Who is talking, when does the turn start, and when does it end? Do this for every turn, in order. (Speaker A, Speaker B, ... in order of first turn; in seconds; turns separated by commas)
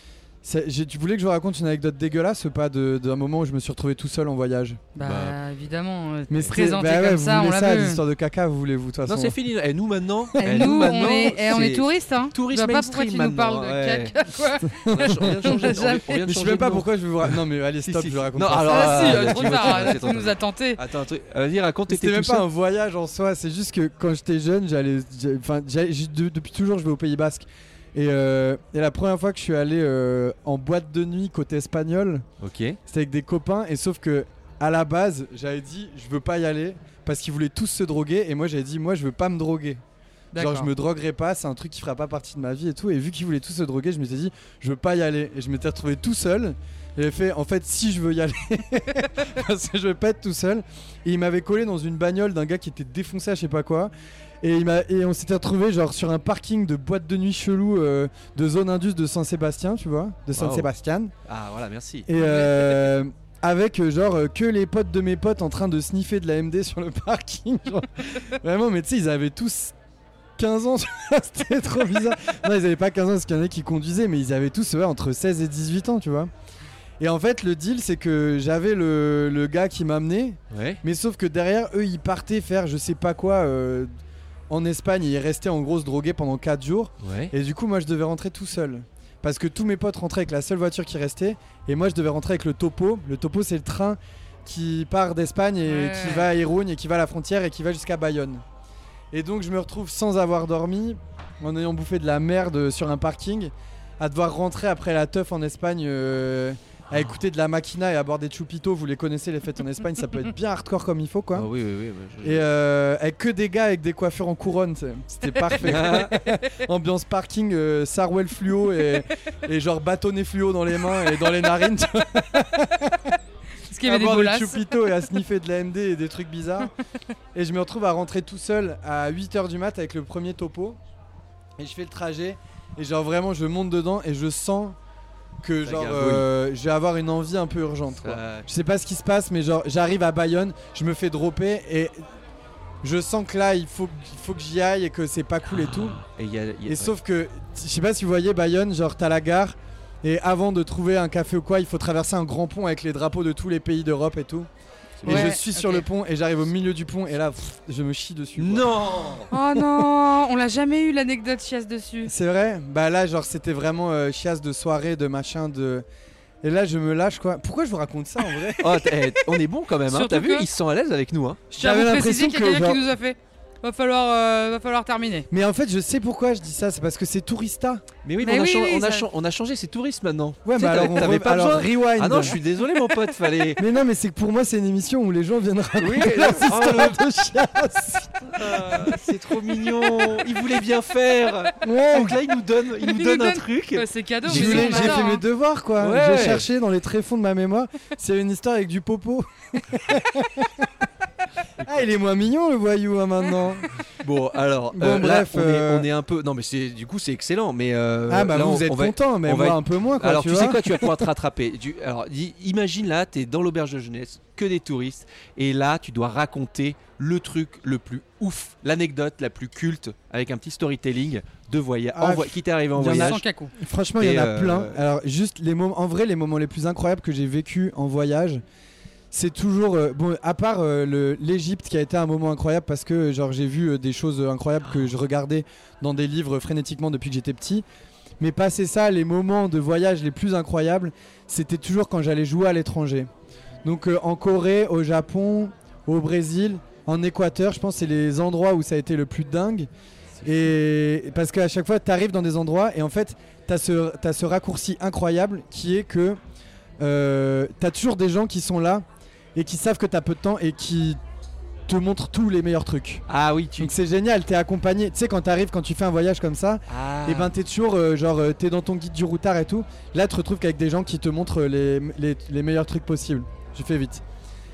Speaker A: 0.4-4.8, Speaker B: 4.9-8.0, Speaker C: 5.0-5.4, Speaker A: 6.3-9.4, Speaker C: 9.1-14.2, Speaker B: 10.4-16.2, Speaker A: 14.9-15.4, Speaker C: 14.9-22.4, Speaker A: 16.2-20.0, Speaker B: 18.6-20.8, Speaker A: 21.9-32.2, Speaker C: 32.4-32.8, Speaker A: 32.9-39.8, Speaker B: 40.3-40.7, Speaker A: 40.4-61.1, Speaker C: 60.4-60.7, Speaker C: 61.2-62.1, Speaker A: 62.1-69.7, Speaker B: 62.2-62.8, Speaker A: 70.4-76.3, Speaker A: 77.0-83.9, Speaker C: 80.5-80.8, Speaker A: 84.5-98.4, Speaker C: 87.0-87.3, Speaker B: 95.7-96.3, Speaker A: 99.1-111.5, Speaker C: 111.3-112.4, Speaker A: 112.2-123.2, Speaker C: 115.6-116.2, Speaker B: 123.6-124.7, Speaker A: 123.8-126.7, Speaker A: 127.3-130.8, Speaker A: 131.6-134.8, Speaker A: 135.4-142.0, Speaker C: 135.6-136.3, Speaker C: 138.0-138.5, Speaker A: 142.8-146.0, Speaker C: 145.7-146.9, Speaker A: 146.7-154.5, Speaker C: 155.0-155.4, Speaker A: 155.0-158.8, Speaker B: 155.1-155.9, Speaker C: 158.4-159.3, Speaker B: 159.3-162.1, Speaker A: 162.1-165.8, Speaker A: 166.4-169.1, Speaker C: 168.6-171.5, Speaker B: 169.9-170.5, Speaker A: 171.5-172.8, Speaker B: 171.6-175.3, Speaker A: 175.3-177.8, Speaker C: 178.0-183.6, Speaker B: 178.2-179.1, Speaker A: 180.4-182.4, Speaker A: 183.6-189.1, Speaker C: 185.8-187.0, Speaker C: 188.3-195.1, Speaker A: 191.6-192.2, Speaker B: 192.8-195.2, Speaker A: 194.3-200.8, Speaker C: 195.8-196.5, Speaker C: 201.6-201.9, Speaker A: 201.6-203.7, Speaker C: 204.0-223.2, Speaker A: 204.7-205.9, Speaker A: 208.1-211.0, Speaker A: 221.9-228.4, Speaker B: 222.8-223.5, Speaker C: 224.0-224.8, Speaker A: 229.1-237.6, Speaker A: 238.2-243.1, Speaker A: 243.6-249.7, Speaker A: 250.2-256.2, Speaker A: 256.8-261.0, Speaker A: 261.7-263.1, Speaker C: 263.1-263.7, Speaker A: 263.6-274.0, Speaker C: 266.7-267.3